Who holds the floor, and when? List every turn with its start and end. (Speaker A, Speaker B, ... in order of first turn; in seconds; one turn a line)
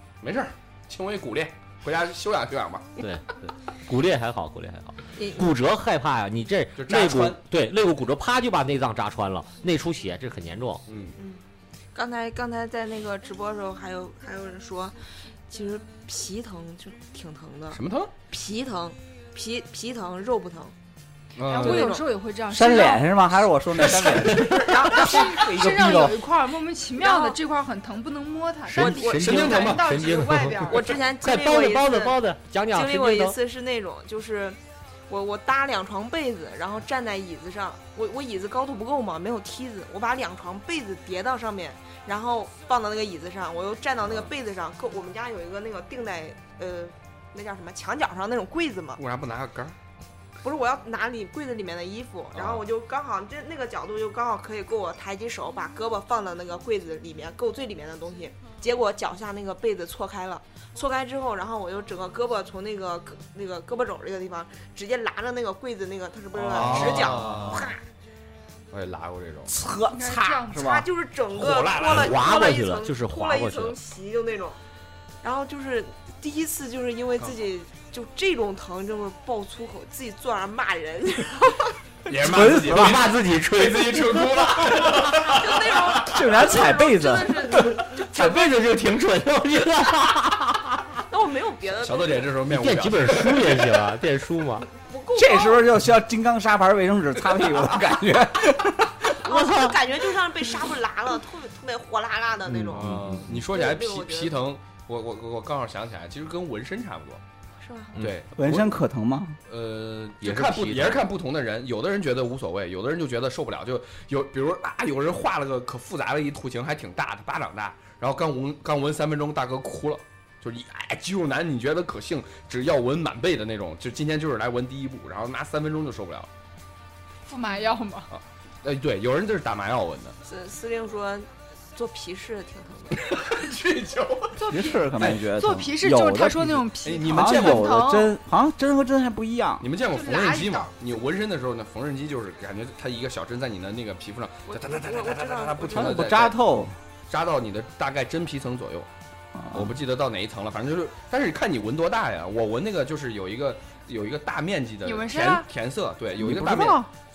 Speaker A: 0.2-3.0
Speaker B: 3.0-10.8
Speaker C: 5.2-5.5
Speaker A: 6.8-7.4
Speaker A: 10.9-11.2
Speaker C: 11.9-15.0
Speaker C: 15.5-20.7
Speaker A: 17.7-18.1
Speaker A: 21.4-21.9
Speaker D: 21.5-23.1
Speaker C: 21.5-22.1
Speaker E: 22.5-26.2
Speaker A: 23.8-24.9
Speaker D: 24.7-31.0
Speaker C: 27.0-27.4
Speaker B: 28.7-33.4
Speaker C: 28.8-29.2
Speaker A: 29.1-30.6
Speaker C: 30.7-32.2
Speaker C: 32.7-49.0
Speaker A: 44.0-44.3
Speaker A: 49.0-49.8
Speaker C: 50.4-67.8
Speaker A: 52.3-52.6
Speaker A: 66.3-67.7
Speaker A: 68.7-69.5
Speaker E: 69.5-70.9
Speaker D: 69.9-70.8
Speaker C: 70.5-74.6
Speaker A: 71.3-72.3
Speaker B: 71.8-73.8
Speaker C: 75.2-81.7
Speaker A: 82.1-86.4
Speaker E: 82.1-83.1
Speaker B: 82.4-84.8
Speaker C: 85.2-88.5
Speaker E: 86.0-87.5
Speaker B: 87.6-90.9
Speaker A: 88.2-88.5
Speaker C: 91.1-92.3
Speaker A: 91.8-93.8
Speaker B: 92.5-94.7
Speaker C: 94.7-95.7
Speaker E: 95.2-99.2
Speaker C: 99.1-104.3
Speaker B: 99.3-99.7
Speaker B: 102.5-103.4
Speaker A: 102.7-107.2
Speaker C: 107.6-108.0
Speaker A: 108.0-108.7
Speaker E: 108.3-109.4
Speaker A: 109.5-126.3
Speaker B: 110.2-111.0
Speaker D: 127.3-128.1
Speaker A: 128.1-130.2
Speaker C: 130.2-133.1
Speaker A: 133.0-134.4
Speaker D: 134.4-138.2
Speaker E: 134.4-139.7
Speaker A: 136.8-137.7
Speaker A: 139.6-146.4
Speaker D: 139.9-140.7
Speaker C: 144.5-146.1
Speaker E: 145.7-146.7
Speaker A: 147.1-148.9
Speaker E: 149.4-149.7
Speaker A: 149.5-156.8
Speaker D: 154.8-155.5
Speaker E: 156.2-156.9